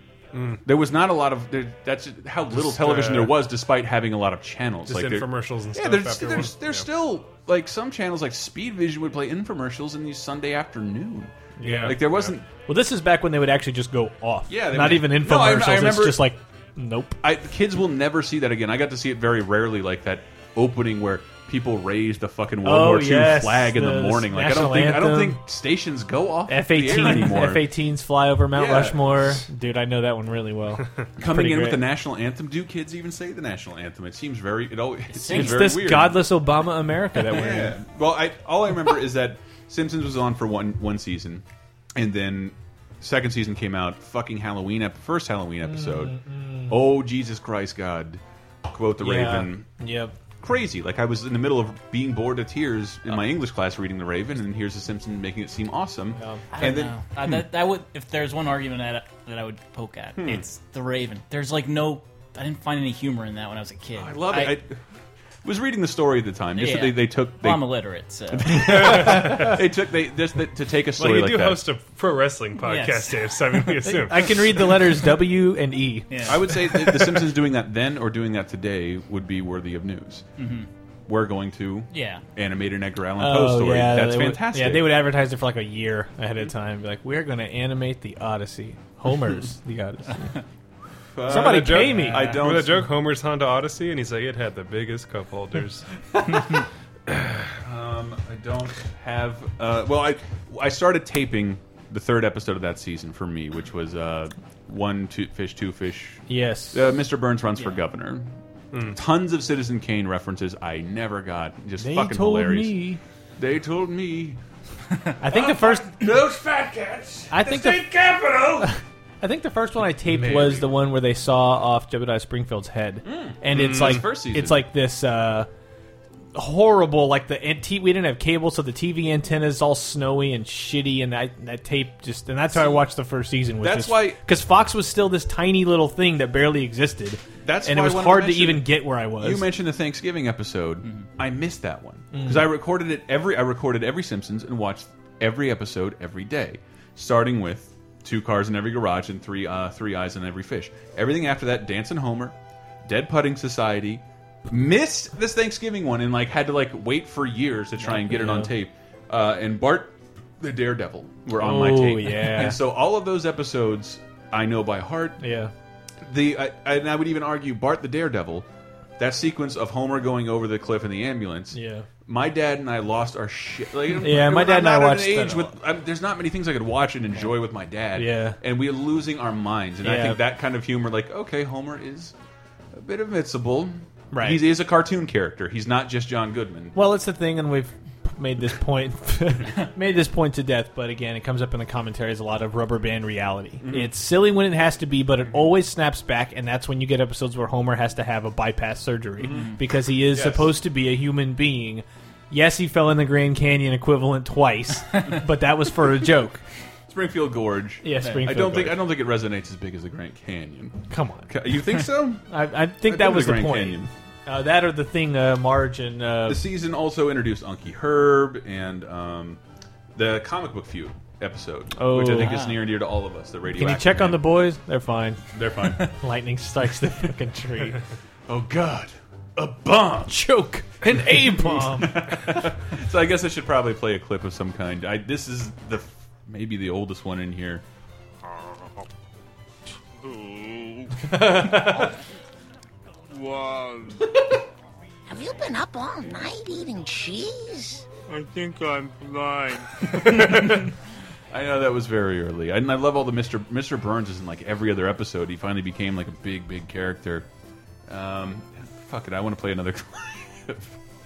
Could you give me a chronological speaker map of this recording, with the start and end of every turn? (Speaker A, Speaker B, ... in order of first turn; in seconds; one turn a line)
Speaker A: 0.3-0.6
Speaker B: 0.6-12.4
Speaker A: 2.5-3.4
Speaker A: 4.9-6.9
Speaker C: 11.6-12.1
Speaker A: 11.6-12.3
Speaker C: 12.6-17.2
Speaker B: 14.5-16.3
Speaker B: 17.2-27.7
Speaker C: 22.6-25.4
Speaker C: 26.5-31.8
Speaker B: 28.5-29.4
Speaker B: 31.2-36.2
Speaker D: 35.1-35.7
Speaker C: 35.3-37.8
Speaker B: 37.2-41.4
Speaker B: 41.9-49.7
Speaker C: 45.6-46.8
Speaker C: 49.0-50.1
Speaker B: 50.4-57.4
Speaker C: 56.1-56.4
Speaker D: 56.5-64.6
Speaker B: 63.9-64.8
Speaker B: 65.4-67.7
Speaker D: 66.5-69.1
Speaker B: 68.3-71.6
Speaker A: 68.6-69.6
Speaker A: 71.0-74.4
Speaker D: 72.6-73.6
Speaker C: 73.8-76.9
Speaker D: 76.1-76.4
Speaker B: 76.2-80.3
Speaker D: 80.4-80.7
Speaker B: 81.1-84.9
Speaker D: 81.9-82.2
Speaker C: 83.2-90.4
Speaker B: 91.1-92.9
Speaker C: 91.3-92.3
Speaker A: 91.3-95.8
Speaker B: 97.6-108.3
Speaker C: 106.3-106.8
Speaker A: 108.7-109.0
Speaker B: 108.8-112.8
Speaker C: 111.8-113.0
Speaker B: 113.4-114.4
Speaker C: 115.2-115.9
Speaker B: 115.3-118.7
Speaker C: 117.3-117.8
Speaker C: 118.6-125.5
Speaker B: 120.1-120.7
Speaker B: 123.0-124.7
Speaker A: 123.5-124.0
Speaker C: 126.3-139.5
Speaker B: 132.5-132.8
Speaker B: 133.6-134.2
Speaker B: 137.4-165.2
Speaker C: 142.1-142.5
Speaker C: 157.9-158.5
Speaker C: 161.3-162.6
Speaker C: 165.2-165.5
Speaker B: 166.0-168.4
Speaker B: 169.0-182.1
Speaker C: 171.5-171.8
Speaker C: 174.0-175.5
Speaker C: 177.9-178.4
Speaker C: 179.8-180.2
Speaker B: 182.7-186.8
Speaker C: 184.1-184.4
Speaker C: 186.7-206.4
Speaker B: 193.6-193.9
Speaker B: 199.2-199.5
Speaker B: 200.1-200.6
Speaker B: 206.9-212.2
Speaker C: 207.8-208.8
Speaker C: 210.9-211.3
Speaker C: 212.3-216.4
Speaker B: 212.8-213.9
Speaker B: 216.2-219.4
Speaker B: 219.9-224.2
Speaker C: 221.8-222.4
Speaker D: 222.2-222.6
Speaker C: 223.5-227.8
Speaker B: 225.3-225.9
Speaker B: 228.3-230.2
Speaker C: 230.1-232.1
Speaker B: 231.4-237.6
Speaker E: 240.0-240.9
Speaker E: 243.1-244.0
Speaker F: 245.1-247.8
Speaker E: 248.1-250.5
Speaker B: 251.3-257.2
Speaker B: 257.9-260.8